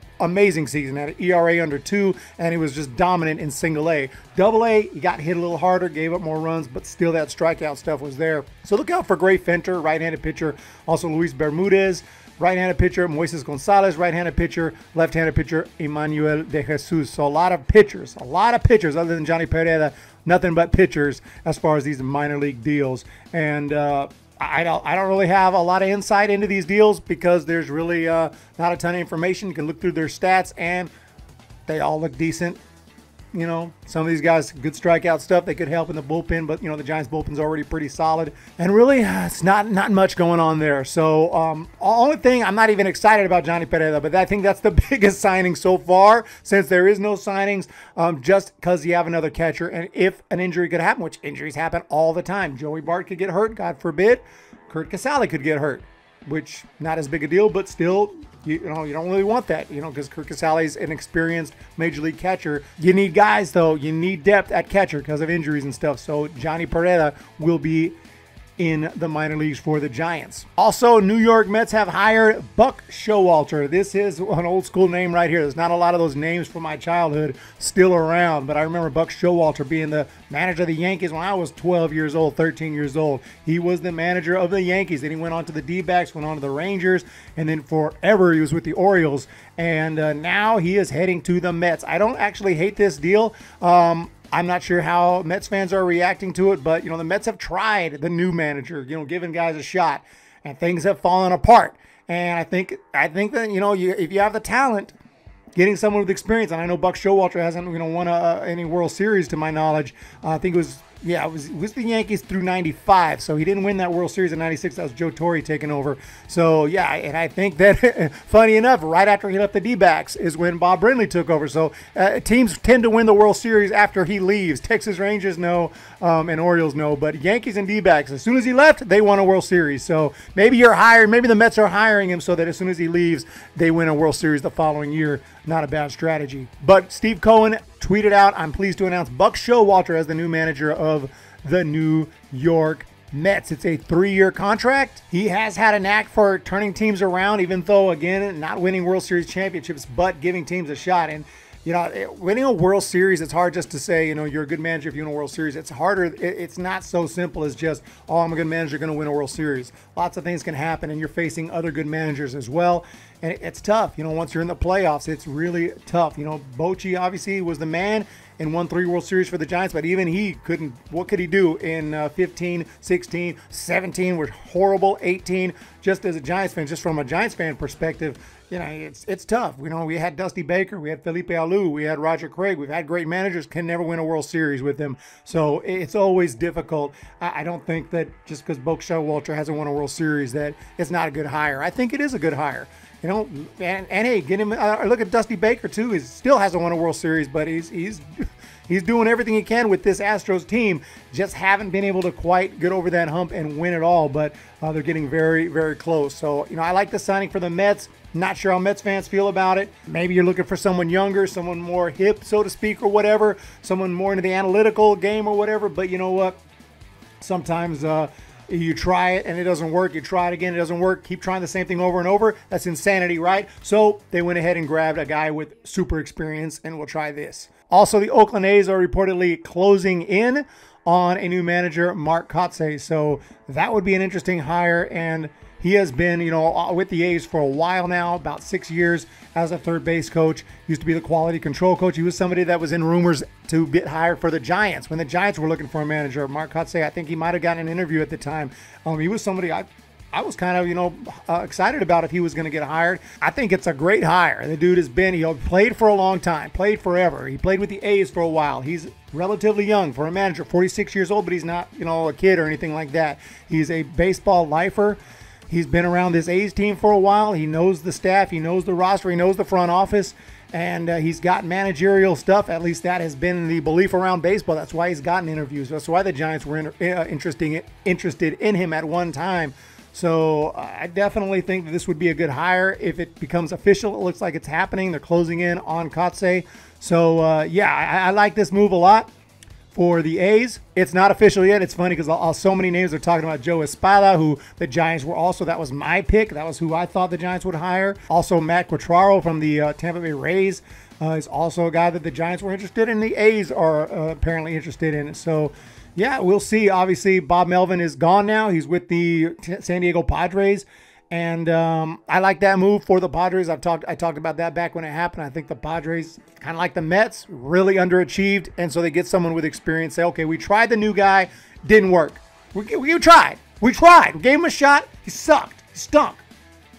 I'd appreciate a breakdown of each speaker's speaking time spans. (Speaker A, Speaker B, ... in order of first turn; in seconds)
Speaker A: 0.2-30.9, 31.7-32.6, 33.3-68.0, 68.6-104.9, 105.5-198.1, 198.7-216.4, 217.2-289.1, 289.7-326.2